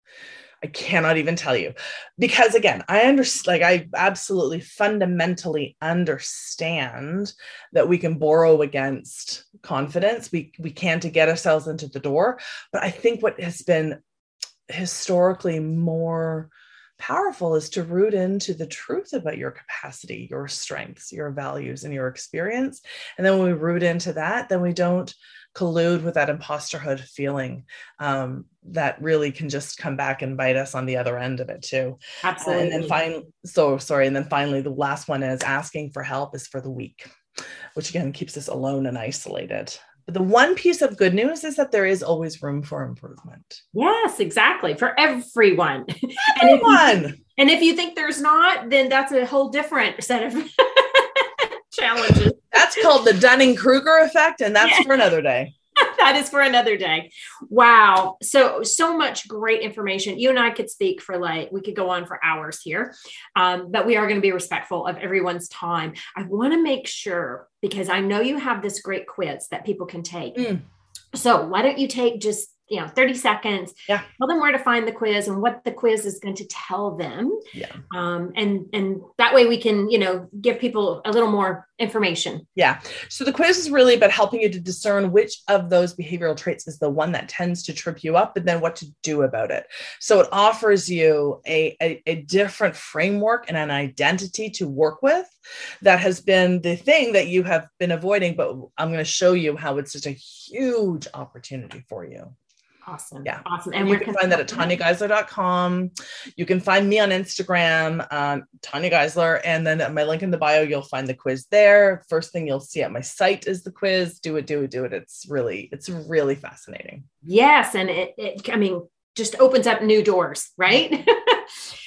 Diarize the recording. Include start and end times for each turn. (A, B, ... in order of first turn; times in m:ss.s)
0:00.6-0:14.0 A
0:14.7-0:37.1 A
0:32.2-0:33.0 B
0:37.7-0:43.6 A
0:43.7-0:52.6 B
0:46.3-0:47.2 A
0:52.5-0:55.5 A
0:54.6-0:54.9 B
0:55.8-1:10.5 B
1:10.3-1:10.6 A
1:11.1-1:22.4 B
1:17.5-1:17.8 A
1:22.6-1:42.3 A
1:42.8-1:44.7 B
1:43.2-1:57.0 A
1:57.2-2:01.5 B